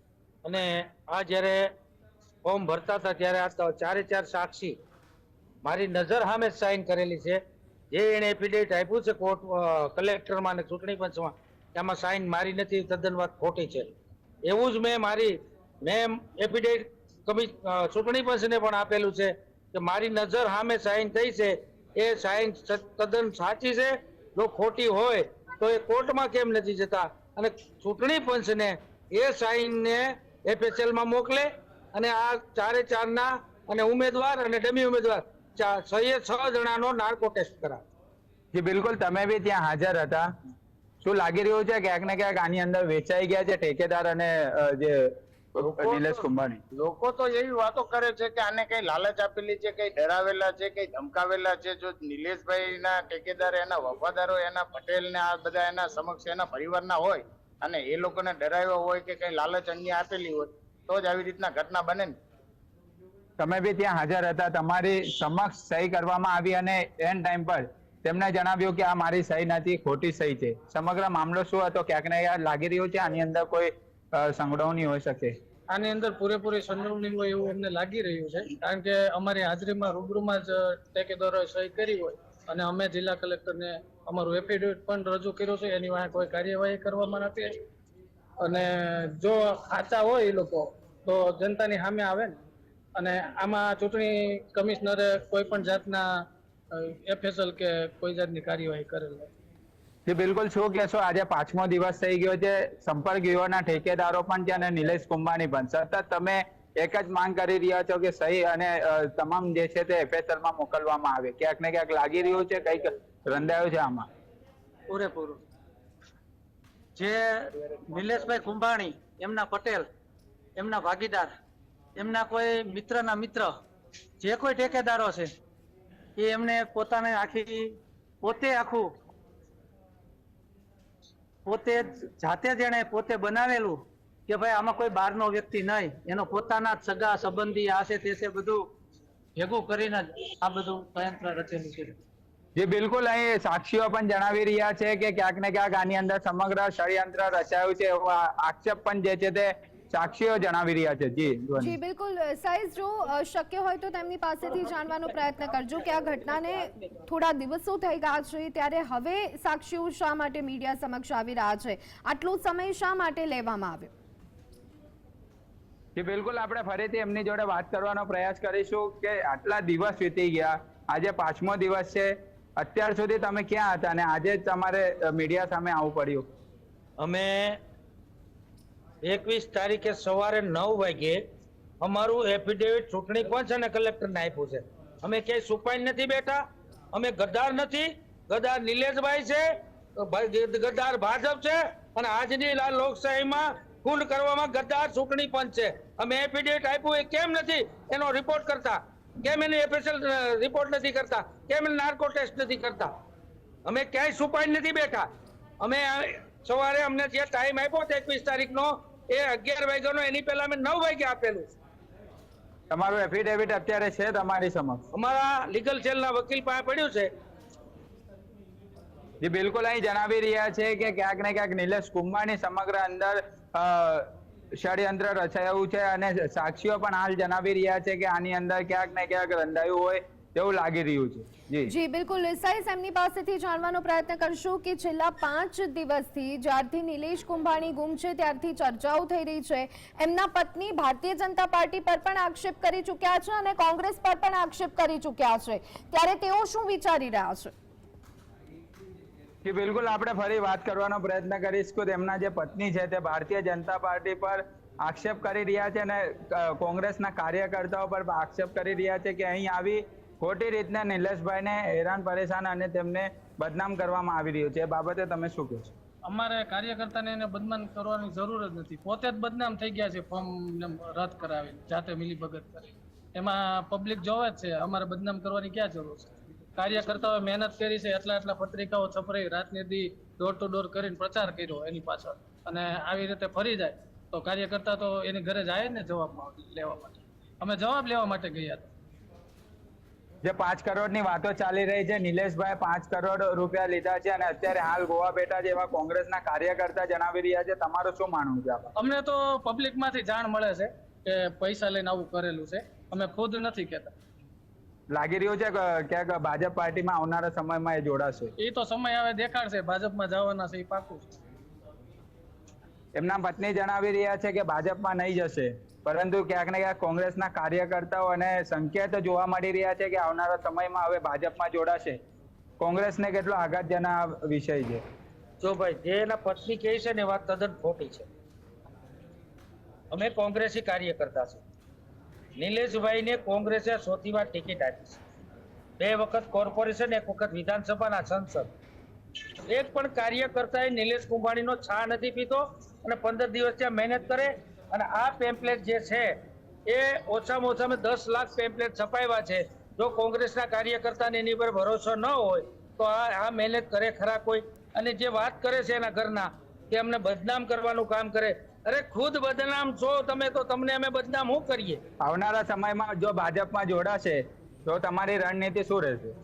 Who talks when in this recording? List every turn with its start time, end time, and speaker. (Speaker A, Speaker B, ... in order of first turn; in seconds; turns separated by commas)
Speaker A: 0.4-1.7, Speaker A: 2.4-4.8, Speaker A: 5.6-13.9, Speaker A: 14.4-37.8, Speaker B: 38.5-40.3, Speaker B: 41.0-46.6, Speaker C: 46.7-62.1, Speaker B: 63.4-75.3, Speaker D: 75.7-87.6, Speaker D: 88.4-92.4, Speaker D: 93.0-96.0, Speaker D: 96.7-99.3, Speaker B: 100.1-114.1, Speaker A: 115.0-115.3, Speaker E: 117.9-119.8, Speaker A: 117.9-119.8, Speaker A: 120.6-121.3, Speaker E: 120.7-121.2, Speaker A: 122.0-123.4, Speaker E: 122.2-123.4, Speaker A: 124.2-125.2, Speaker E: 124.3-125.2, Speaker A: 126.2-127.6, Speaker E: 126.4-127.4, Speaker A: 128.2-128.8, Speaker E: 128.5-128.8, Speaker A: 131.5-133.8, Speaker E: 132.5-133.5, Speaker A: 134.3-138.6, Speaker E: 134.5-138.2, Speaker A: 139.4-139.9, Speaker E: 139.4-141.9, Speaker B: 142.6-151.8, Speaker F: 151.6-163.9, Speaker B: 166.0-176.3, Speaker A: 177.0-177.6, Speaker A: 179.0-181.2, Speaker A: 181.8-202.9, Speaker A: 203.7-205.1, Speaker A: 205.6-211.6, Speaker B: 212.7-214.8, Speaker A: 214.9-217.1, Speaker B: 219.2-231.7, Speaker F: 231.7-247.5, Speaker B: 249.4-265.7, Speaker D: 266.1-288.7, Speaker B: 290.2-298.7, Speaker D: 298.8-303.9, Speaker B: 304.9-308.3, Speaker D: 308.4-311.1, Speaker B: 312.9-322.0, Speaker B: 322.6-324.8, Speaker A: 325.4-328.1, Speaker A: 329.9-331.4, Speaker A: 332.4-335.0, Speaker A: 335.8-338.5, Speaker A: 339.5-346.2, Speaker A: 346.7-361.8, Speaker B: 362.0-366.1